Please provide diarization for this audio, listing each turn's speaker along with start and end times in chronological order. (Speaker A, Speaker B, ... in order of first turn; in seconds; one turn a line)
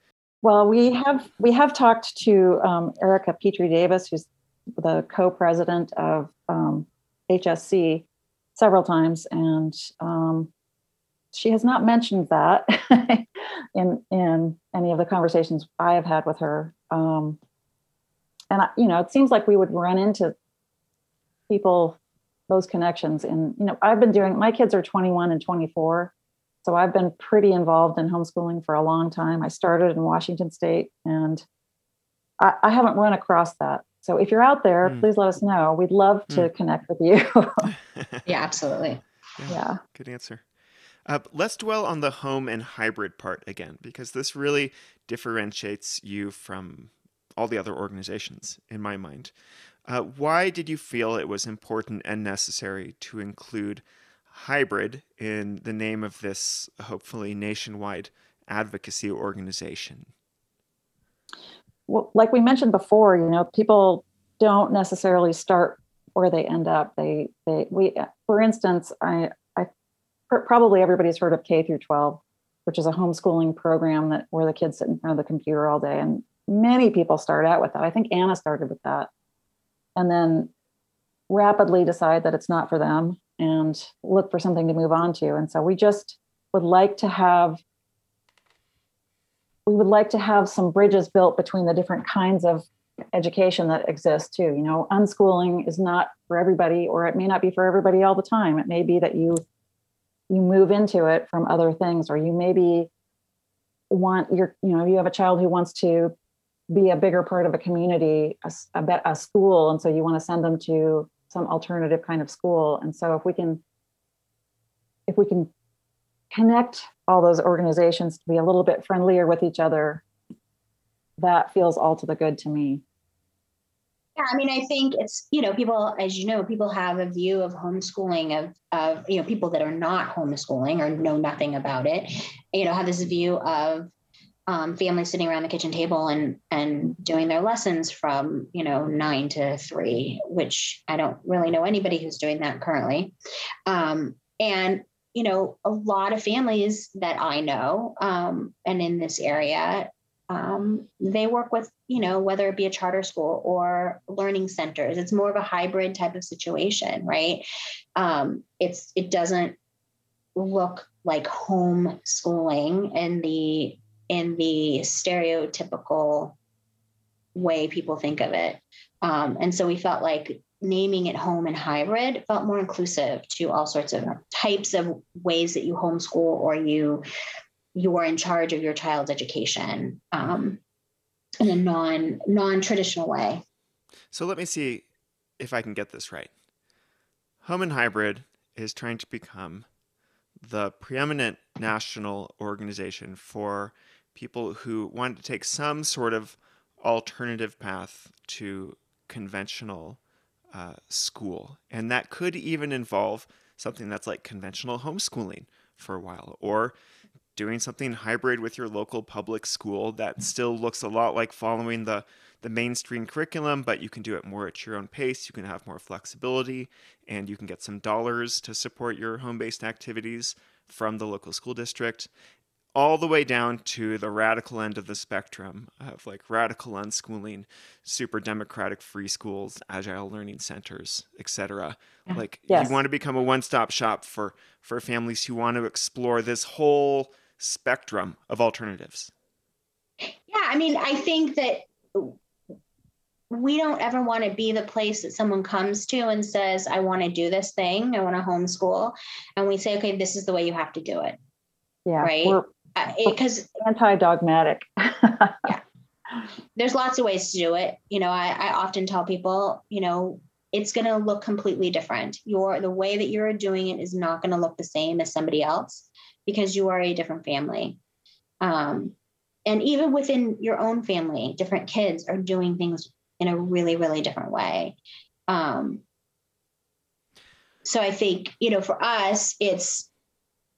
Speaker A: 0.4-10.5
Speaker A: 11.3-17.4
Speaker A: 18.5-20.3
Speaker A: 21.5-22.0
Speaker A: 22.5-26.1
Speaker A: 26.6-31.4
Speaker A: 32.4-37.7
Speaker B: 38.2-39.0
Speaker C: 39.4-40.4
Speaker A: 39.5-39.8
Speaker C: 41.0-49.3
Speaker C: 49.9-60.1
Speaker A: 61.9-69.7
Speaker A: 70.3-79.1
Speaker A: 80.0-80.5
Speaker A: 81.3-87.6
Speaker A: 89.7-99.4
Speaker A: 100.3-102.9
Speaker A: 103.9-106.1
Speaker A: 106.7-113.6
Speaker A: 115.1-115.5
Speaker A: 116.3-120.0
Speaker A: 121.2-122.8
Speaker B: 124.2-133.9
Speaker B: 134.5-143.1
Speaker B: 143.7-157.4
Speaker B: 157.9-159.6
Speaker B: 160.3-166.4
Speaker B: 167.3-177.0
Speaker B: 177.7-180.6
Speaker B: 181.4-183.4
Speaker C: 184.1-184.8
Speaker C: 185.4-186.3
Speaker C: 187.4-189.7
Speaker C: 190.4-200.0
Speaker C: 200.5-206.7
Speaker C: 207.3-222.1
Speaker C: 222.7-239.1
Speaker A: 232.5-232.8
Speaker B: 240.3-242.2
Speaker B: 243.3-251.2
Speaker A: 251.8-252.5
Speaker B: 252.0-253.5
Speaker A: 253.0-255.4
Speaker B: 256.6-267.8
Speaker B: 268.4-268.9
Speaker B: 269.4-274.8
Speaker B: 275.3-275.8
Speaker B: 277.6-279.9